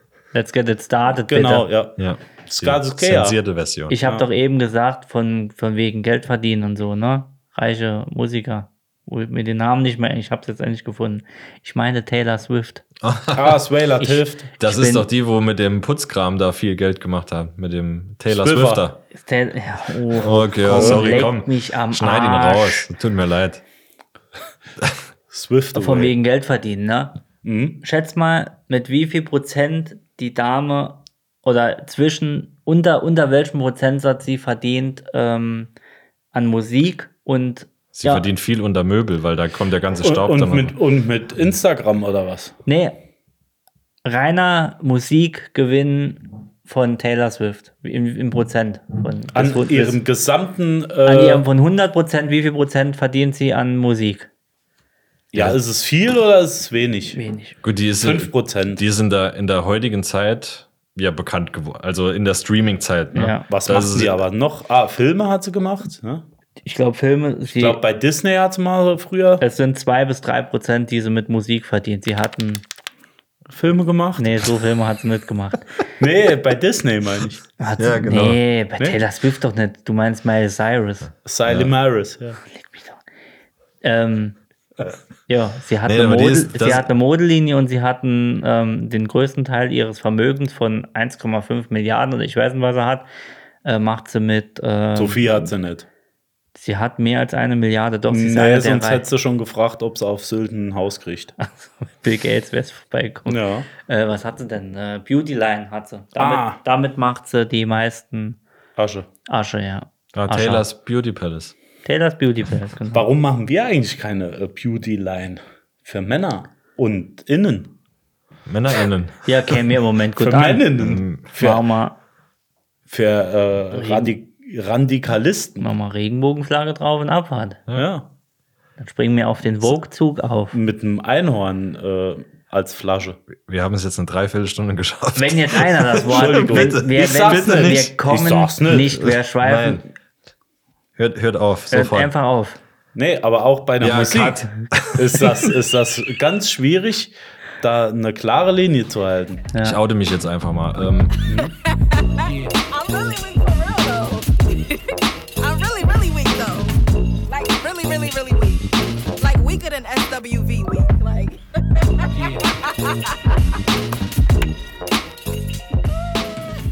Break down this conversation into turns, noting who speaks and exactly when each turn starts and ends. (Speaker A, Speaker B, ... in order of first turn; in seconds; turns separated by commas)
Speaker A: 0.3-1.7, Speaker B: 1.3-3.4, Speaker C: 2.0-4.0, Speaker A: 3.9-12.8, Speaker C: 13.0-13.6, Speaker B: 13.3-14.5, Speaker A: 14.0-15.1, Speaker C: 14.6-19.0, Speaker B: 18.3-18.9, Speaker A: 19.1-22.9, Speaker C: 20.1-23.6, Speaker B: 20.7-21.3, Speaker B: 25.3-26.1, Speaker A: 25.7-27.2, Speaker B: 27.4-27.8, Speaker A: 27.8-35.7, Speaker A: 36.3-38.3, Speaker C: 37.9-40.8, Speaker B: 40.0-42.5, Speaker A: 42.7-43.0, Speaker A: 44.0-50.0, Speaker B: 49.4-51.5, Speaker A: 51.0-54.3, Speaker B: 55.3-57.2, Speaker A: 57.1-57.6, Speaker C: 57.6-64.2, Speaker B: 58.0-58.8, Speaker A: 63.1-63.5, Speaker B: 63.5-66.2, Speaker A: 66.7-67.8, Speaker B: 67.5-69.4, Speaker A: 69.4-72.6, Speaker B: 73.5-74.5, Speaker A: 74.2-75.8, Speaker B: 76.0-77.4, Speaker A: 77.6-81.1, Speaker C: 77.8-78.4, Speaker B: 81.2-82.4, Speaker C: 81.5-81.7, Speaker A: 82.5-83.0, Speaker A: 83.8-84.4, Speaker A: 85.3-93.1, Speaker C: 85.8-86.9, Speaker A: 93.6-95.5, Speaker B: 95.0-95.9, Speaker A: 96.5-99.0, Speaker B: 98.1-101.3, Speaker A: 101.4-108.4, Speaker B: 103.3-103.7, Speaker B: 106.2-106.6, Speaker B: 108.8-109.1, Speaker A: 109.3-110.7, Speaker C: 110.1-111.5, Speaker A: 111.8-113.0, Speaker B: 112.9-117.7, Speaker C: 118.5-119.5, Speaker A: 119.3-120.7, Speaker B: 120.2-121.6, Speaker C: 120.8-121.2, Speaker A: 121.4-122.0, Speaker B: 122.9-125.7, Speaker A: 123.7-124.1, Speaker A: 125.6-127.6, Speaker B: 127.7-128.1, Speaker A: 128.8-130.6, Speaker B: 130.5-133.2, Speaker C: 133.5-137.9, Speaker A: 135.2-139.9, Speaker B: 136.1-139.1, Speaker C: 139.4-139.8, Speaker C: 141.0-142.1, Speaker A: 141.7-142.6, Speaker B: 142.9-149.4, Speaker C: 143.8-145.5, Speaker A: 149.5-149.8, Speaker C: 149.6-151.2, Speaker B: 151.3-151.6, Speaker D: 151.7-154.8, Speaker D: 155.4-163.3